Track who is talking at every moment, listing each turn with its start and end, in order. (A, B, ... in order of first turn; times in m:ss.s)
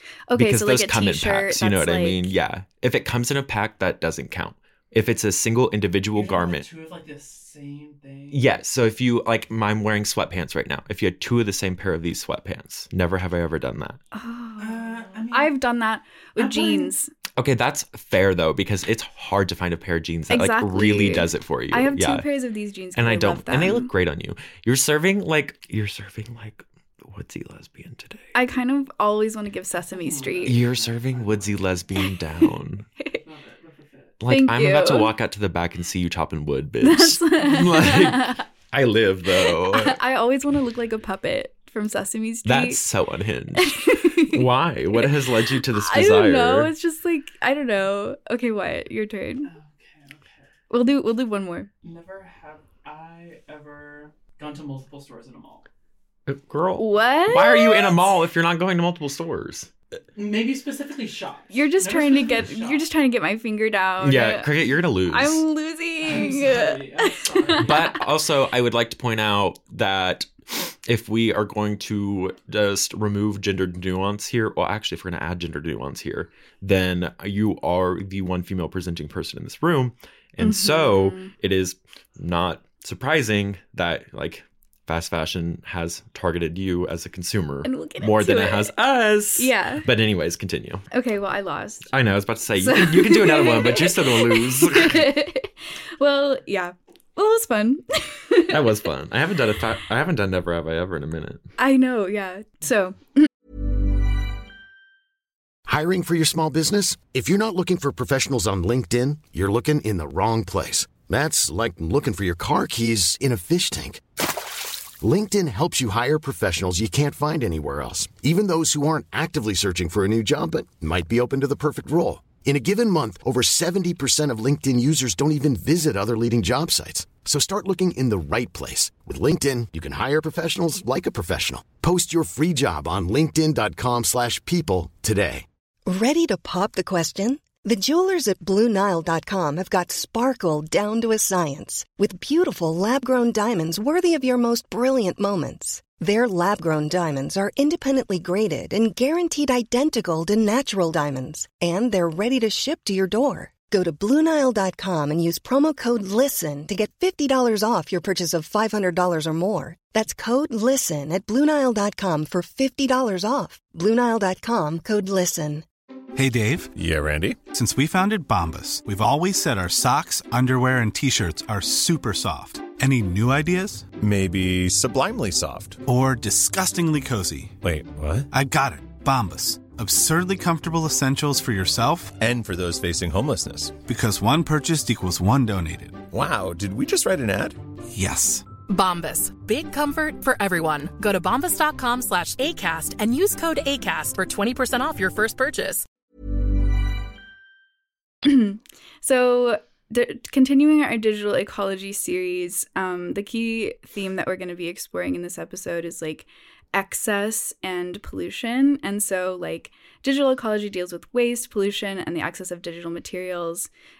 0:00.3-0:02.3 A
0:00.3-0:06.7 B
0:06.2-0:08.5 C
0:08.3-0:14.0 B
0:14.1-0:17.1 A
0:14.6-0:15.6 C
0:16.4-0:16.9 C
0:17.4-0:22.3 B
0:20.3-0:23.9 A
0:22.9-0:28.2 B
0:28.3-0:30.6 A
0:29.9-0:31.7 C
0:30.4-0:32.9 B
0:33.1-0:34.2 C
0:34.2-0:40.0 B
0:34.2-0:35.1 A
0:36.8-0:38.4 A
0:39.4-0:42.8 A
0:42.4-0:46.7 B
0:43.6-0:44.4 A
0:44.9-0:49.5 A
0:49.4-0:50.5 C
0:50.7-0:51.7 A
0:51.8-0:55.7 C
0:56.3-0:59.7 B
0:56.8-0:58.0 A
1:00.2-1:02.8 C
1:01.5-1:04.5 A
1:04.0-1:05.4 B
1:05.1-1:07.8 A
1:06.0-1:07.9 C
1:07.6-1:30.9 B
1:20.4-1:21.3 A
1:27.6-1:28.7 A
1:29.4-1:29.8 A
1:30.9-1:31.9 A
1:31.9-1:35.0 B
1:32.6-1:38.6 A
1:38.5-1:41.5 B
1:41.6-1:43.3 A
1:45.7-1:54.0 D
1:55.0-2:15.4 D
2:15.9-2:45.6 E
2:46.1-2:46.7 F
2:46.8-2:47.4 G
2:47.5-2:53.9 F
2:54.0-2:55.8 G
2:55.9-2:57.6 F
2:57.6-2:58.3 G
2:58.3-3:02.2 F
3:02.2-3:03.8 G
3:03.8-3:06.0 F
3:06.1-3:07.6 G
3:07.9-3:08.5 F
3:08.7-3:15.8 H
3:18.2-3:33.7 A